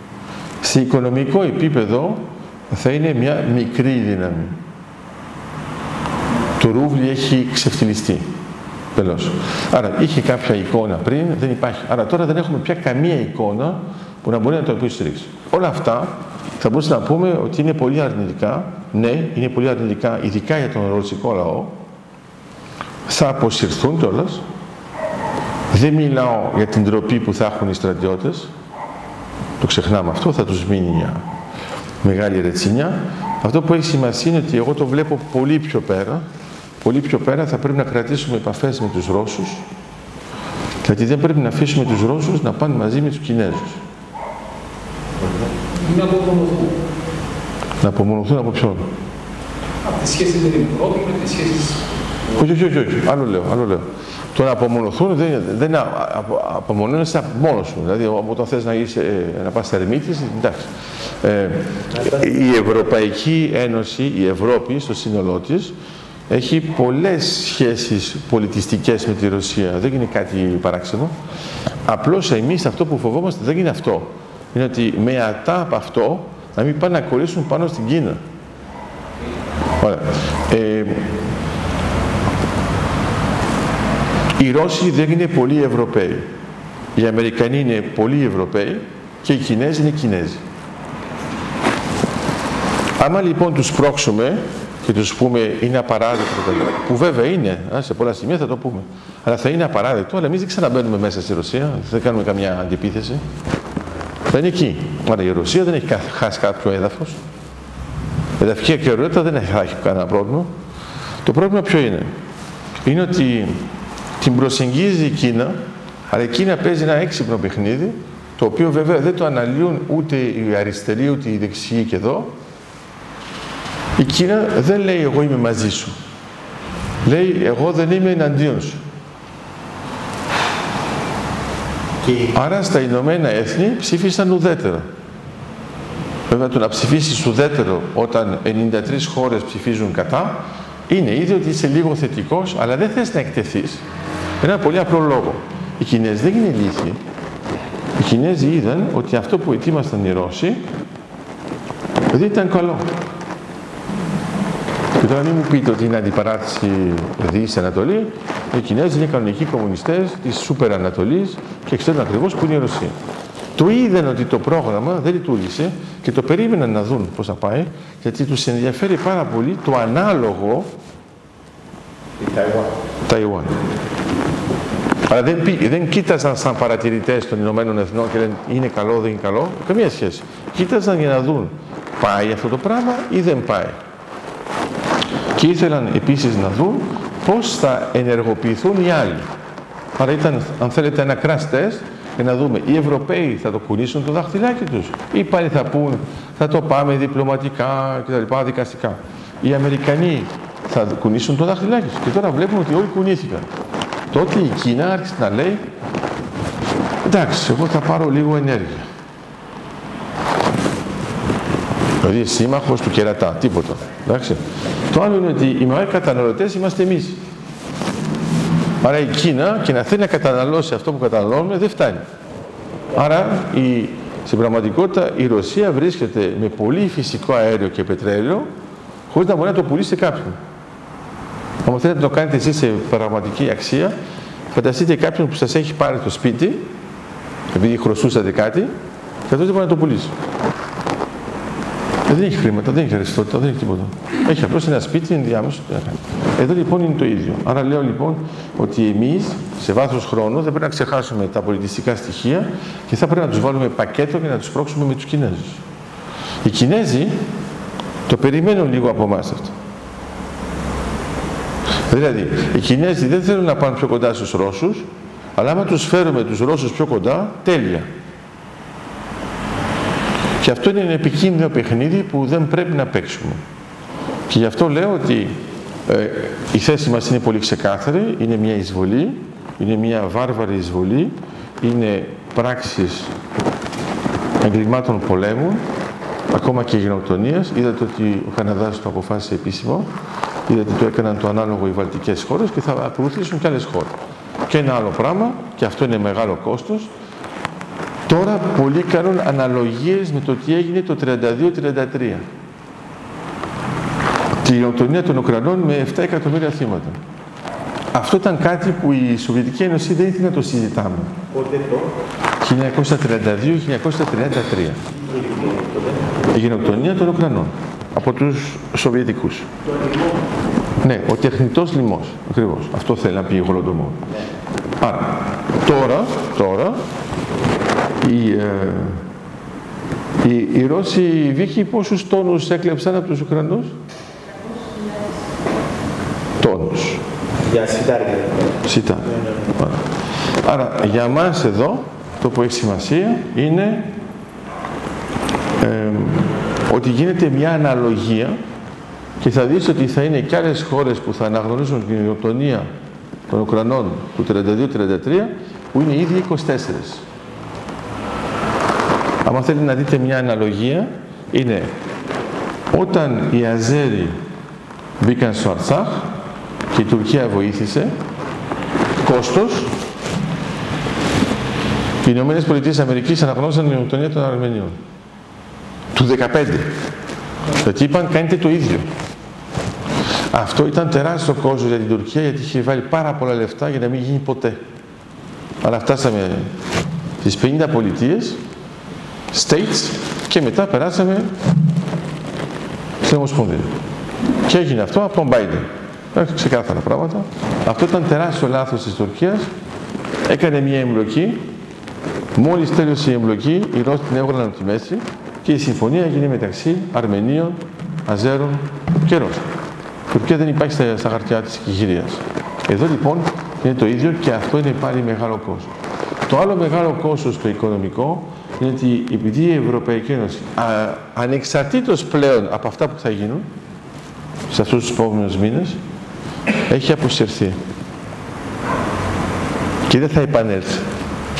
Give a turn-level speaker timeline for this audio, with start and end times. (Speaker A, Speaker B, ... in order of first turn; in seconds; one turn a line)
Speaker A: 0.6-4.6
Speaker A: 6.6-8.3
Speaker A: 8.9-21.7
Speaker A: 23.1-24.4
Speaker A: 25.7-28.5
Speaker A: 29.6-31.2
Speaker A: 32.0-36.2
Speaker A: 36.8-39.6
Speaker A: 40.8-43.8
Speaker B: 45.2-45.5
Speaker C: 45.7-46.8
Speaker A: 47.8-48.9
Speaker C: 49.8-51.8
Speaker A: 52.3-65.8
Speaker B: 61.9-62.9
Speaker A: 66.3-71.1
Speaker A: 71.8-78.2
Speaker A: 79.8-81.2
Speaker A: 84.3-86.3
Speaker A: 86.9-90.4
Speaker A: 93.0-103.2
Speaker A: 104.3-107.2
Speaker A: 108.4-110.5
Speaker A: 111.2-112.1
Speaker A: 112.8-113.7
Speaker A: 114.2-122.3
Speaker A: 124.0-125.9
Speaker A: 127.0-128.8
Speaker B: 132.0-132.3
Speaker A: 132.3-134.9
Speaker A: 136.3-143.8
Speaker A: 144.4-147.0
Speaker A: 148.0-150.7
Speaker A: 152.1-152.9
Speaker A: 155.0-162.9
Speaker A: 163.6-170.7
Speaker B: 172.2-172.8
Speaker A: 173.1-173.6
Speaker A: 175.1-183.8
Speaker A: 185.3-189.3
Speaker A: 190.0-203.5
Speaker A: 204.1-205.6
Speaker A: 207.0-208.9
Speaker A: 212.0-217.2
Speaker A: 218.8-222.1
Speaker A: 222.9-228.5
Speaker A: 229.1-230.4
Speaker A: 231.6-233.9
Speaker A: 234.5-236.7
Speaker A: 237.5-238.7
Speaker A: 239.3-240.1
Speaker A: 242.1-255.6
Speaker A: 256.4-257.2
Speaker A: 258.1-259.5
Speaker A: 261.9-267.9
Speaker A: 270.4-273.4
Speaker A: 274.3-283.1
Speaker A: 284.4-285.6
Speaker A: 286.3-289.9
Speaker A: 290.5-293.9
Speaker A: 294.5-296.9
Speaker A: 298.1-302.3
Speaker A: 304.4-307.0
Speaker A: 307.9-311.2
Speaker B: 311.3-311.9
Speaker A: 312.4-314.8
Speaker B: 315.0-316.1
Speaker A: 316.3-319.5
Speaker A: 320.8-324.0
Speaker A: 324.8-326.8
Speaker A: 328.0-329.0
Speaker A: 330.2-333.8
Speaker A: 336.4-337.0
Speaker B: 337.4-339.5
Speaker A: 338.6-339.8
Speaker A: 340.4-343.9
Speaker A: 345.6-348.4
Speaker A: 349.2-352.7
Speaker A: 353.3-357.0
Speaker A: 359.2-361.8
Speaker A: 362.7-364.2
Speaker A: 365.0-366.2
Speaker A: 366.7-367.9
Speaker A: 369.0-369.7
Speaker A: 372.0-374.8
Speaker A: 375.9-376.8
Speaker A: 377.6-378.9
Speaker A: 380.3-384.6
Speaker A: 385.6-386.5
Speaker A: 387.2-388.4
Speaker A: 389.3-391.3
Speaker A: 393.0-393.7
Speaker A: 394.4-399.5
Speaker A: 400.3-401.5
Speaker A: 402.3-409.4
Speaker A: 410.1-415.7
Speaker A: 416.3-423.5
Speaker A: 424.5-425.8
Speaker A: 426.7-427.6
Speaker A: 429.9-430.9